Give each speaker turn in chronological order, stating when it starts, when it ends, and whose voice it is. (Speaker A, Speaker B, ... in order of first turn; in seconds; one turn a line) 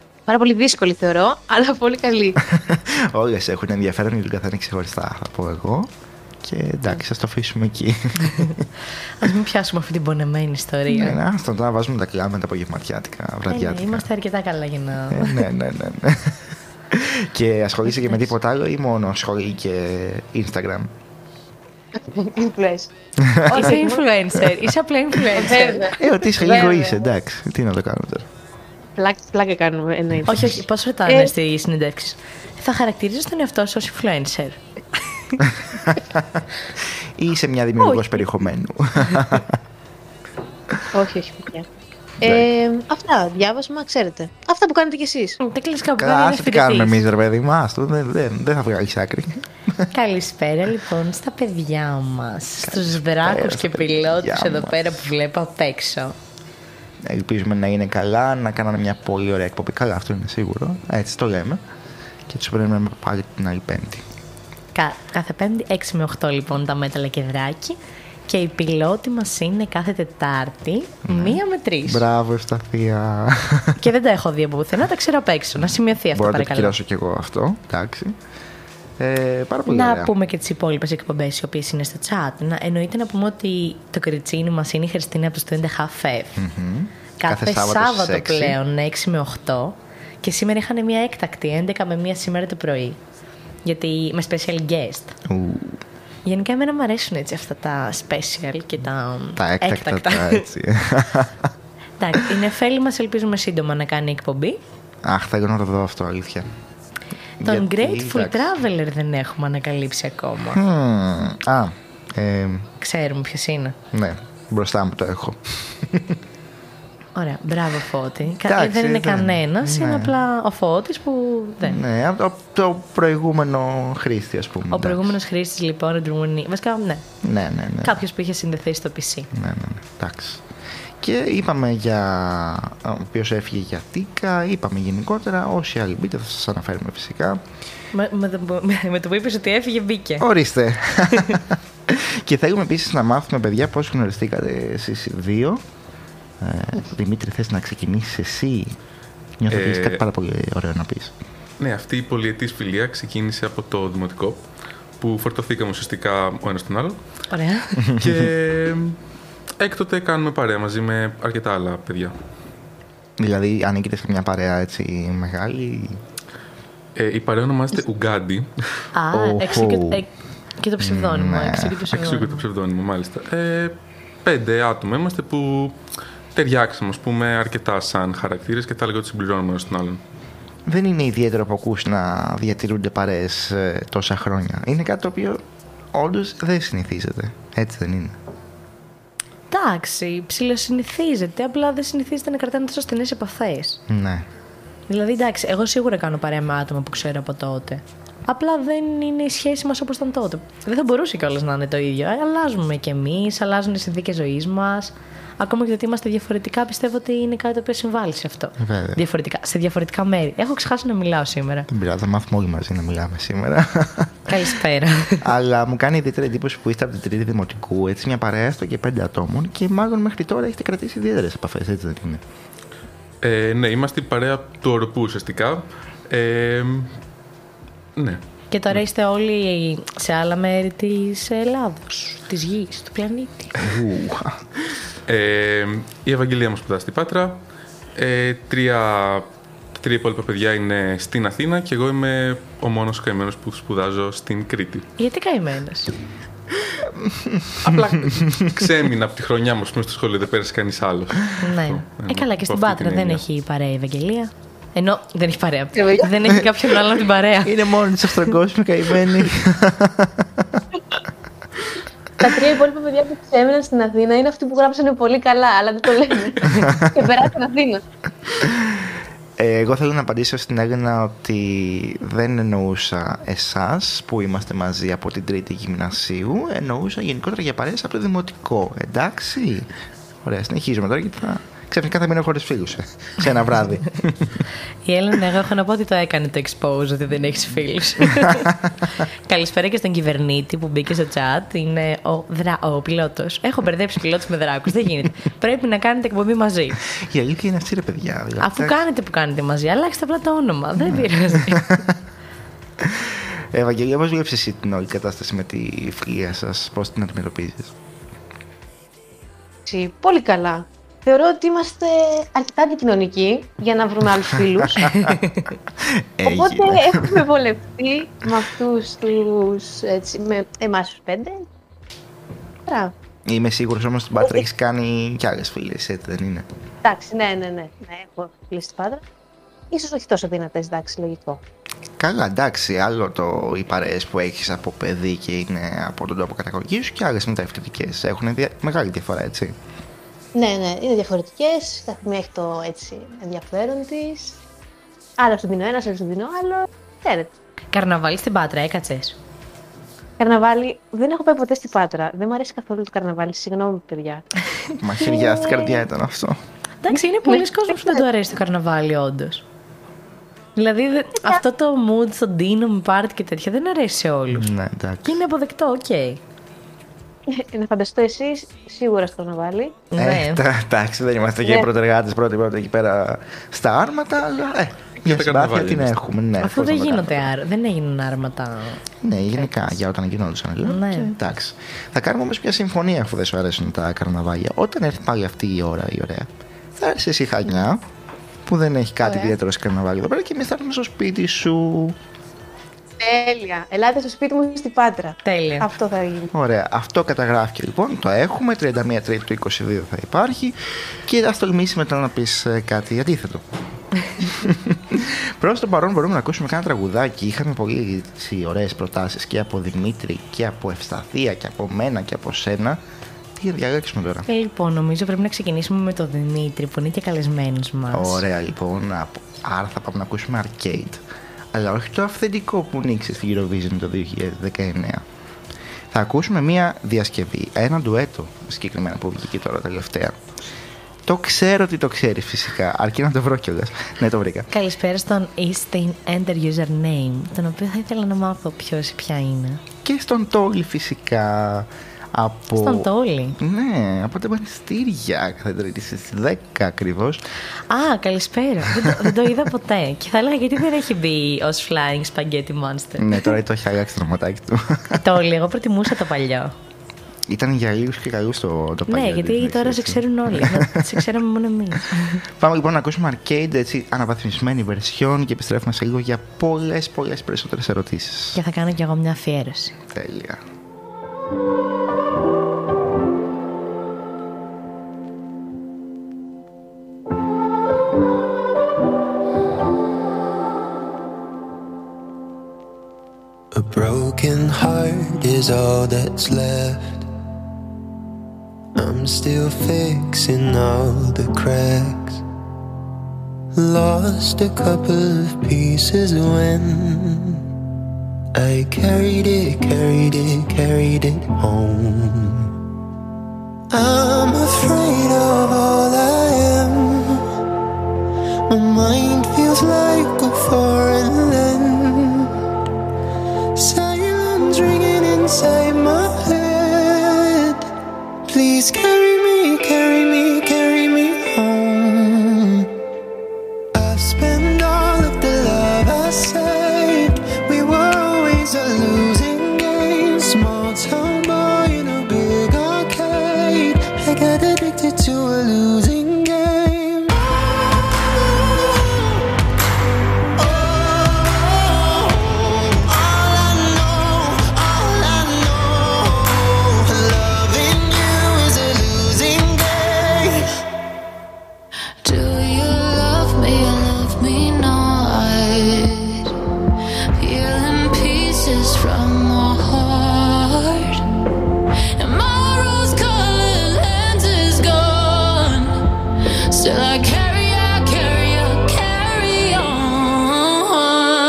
Speaker A: 0.3-2.4
Speaker B: 2.5-5.9
Speaker B: 6.4-8.6
Speaker C: 8.3-8.5
Speaker C: 9.2-11.2
Speaker B: 10.9-14.1
Speaker C: 13.5-15.4
Speaker B: 15.1-20.9
Speaker A: 21.9-22.9
Speaker B: 23.2-23.8
Speaker A: 23.4-24.0
Speaker C: 23.5-25.8
Speaker B: 24.3-24.7
Speaker A: 25.3-27.0
Speaker B: 26.0-28.3
Speaker A: 29.0-31.3
Speaker C: 30.2-34.6
Speaker B: 35.9-39.6
Speaker A: 37.8-38.2
Speaker A: 40.9-41.7
Speaker A: 42.2-45.4
Speaker C: 45.4-47.0
Speaker B: 46.0-49.9
Speaker C: 49.9-56.1
Speaker B: 52.6-55.0
Speaker B: 57.0-61.6
Speaker B: 62.3-64.0
Speaker C: 64.7-67.8
Speaker C: 68.3-72.0
Speaker B: 71.0-73.8
Speaker C: 73.8-76.7
Speaker B: 76.1-78.2
Speaker B: 79.0-80.1
Speaker C: 79.7-86.3
Speaker B: 86.3-88.5
Speaker C: 87.2-93.0
Speaker C: 93.6-95.2
Speaker B: 95.3-95.8
Speaker C: 96.2-100.4
Speaker B: 99.4-101.5
Speaker C: 102.0-104.6
Speaker B: 105.0-106.5
Speaker B: 107.4-108.5
Speaker C: 107.4-110.6
Speaker B: 110.5-112.7
Speaker C: 112.8-113.8
Speaker B: 113.9-116.2
Speaker C: 117.1-121.8
Speaker B: 118.5-120.1
Speaker B: 121.6-125.1
Speaker C: 124.7-127.0
Speaker B: 127.2-128.0
Speaker C: 127.8-129.3
Speaker B: 129.3-130.4
Speaker B: 131.0-137.4
Speaker C: 137.9-140.2
Speaker B: 140.2-145.6
Speaker B: 146.4-148.8
Speaker B: 149.4-151.1
Speaker D: 149.5-150.0
Speaker D: 151.6-154.4
Speaker D: 155.0-157.0
Speaker C: 157.3-157.8
Speaker B: 157.8-158.3
Speaker D: 158.0-159.0
Speaker D: 159.6-162.1
Speaker B: 163.2-166.0
Speaker D: 166.9-168.5
Speaker C: 168.9-172.4
Speaker B: 169.1-170.0
Speaker B: 170.8-171.8
Speaker D: 171.9-175.8
Speaker D: 176.3-180.0
Speaker B: 180.7-188.2
Speaker C: 189.5-193.8
Speaker B: 193.9-194.2
Speaker C: 194.9-211.7
Speaker B: 208.6-209.0
Speaker B: 211.7-214.2
Speaker C: 214.3-215.2
Speaker B: 215.2-222.2
Speaker D: 223.2-226.9
Speaker D: 227.9-228.2
Speaker C: 228.5-233.6
Speaker B: 233.6-234.4
Speaker D: 235.1-237.4
Speaker D: 237.9-244.8
Speaker C: 245.0-245.9
Speaker B: 246.8-248.6
Speaker D: 247.8-253.2
Speaker C: 251.4-257.5
Speaker A: 255.7-256.4
Speaker B: 257.4-260.6
Speaker A: 262.2-267.8
Speaker B: 268.4-279.7
Speaker B: 280.2-284.4
Speaker C: 284.8-288.5
Speaker C: 289.3-296.8
Speaker B: 296.9-298.8
Speaker C: 298.4-301.6
Speaker B: 300.8-301.9
Speaker B: 302.8-307.8
Speaker A: 309.7-314.9
Speaker B: 314.6-315.2
Speaker B: 315.8-317.2
Speaker A: 316.3-321.4
Speaker A: 322.6-322.9
Speaker B: 323.2-326.4
Speaker A: 326.8-329.0
Speaker A: 329.7-331.4
Speaker B: 332.0-339.6
Speaker A: 340.3-344.4
Speaker A: 345.2-347.3
Speaker C: 347.7-349.1
Speaker A: 350.2-354.2
Speaker B: 354.8-356.4
Speaker A: 355.0-355.8
Speaker C: 356.8-359.4
Speaker A: 357.2-358.0
Speaker C: 360.6-364.5
Speaker B: 364.3-365.2
Speaker C: 365.0-366.2
Speaker A: 367.3-369.8
Speaker C: 369.9-370.4
Speaker B: 370.0-377.3
Speaker D: 375.0-376.0
Speaker C: 376.4-378.8
Speaker B: 379.0-387.8
Speaker C: 380.6-381.1
Speaker B: 388.4-392.0
Speaker A: 389.0-389.3
Speaker A: 393.0-396.3
Speaker C: 395.2-395.7
Speaker B: 396.3-403.4
Speaker B: 404.2-412.8
Speaker B: 413.4-414.3
Speaker C: 414.3-418.2
Speaker B: 417.9-425.0
Speaker B: 425.9-430.2
Speaker B: 431.1-434.5
Speaker C: 434.5-439.6
Speaker B: 439.8-447.2
Speaker C: 442.6-443.4
Speaker C: 447.7-453.4
Speaker B: 448.7-449.2
Speaker B: 453.0-455.0
Speaker C: 455.0-456.5
Speaker B: 457.3-461.0
Speaker C: 458.9-462.2
Speaker B: 462.4-468.4
Speaker C: 468.3-469.7
Speaker B: 469.9-470.4
Speaker E: 483.5-487.1
Speaker E: 488.7-492.2
Speaker E: 493.5-497.4
Speaker E: 498.3-502.5
Speaker E: 503.7-507.2
Speaker E: 508.5-512.3
Speaker E: 513.5-517.6
Speaker E: 518.3-522.7
Speaker E: 523.7-537.2
Speaker E: 540.4-541.6
Speaker E: 542.1-550.4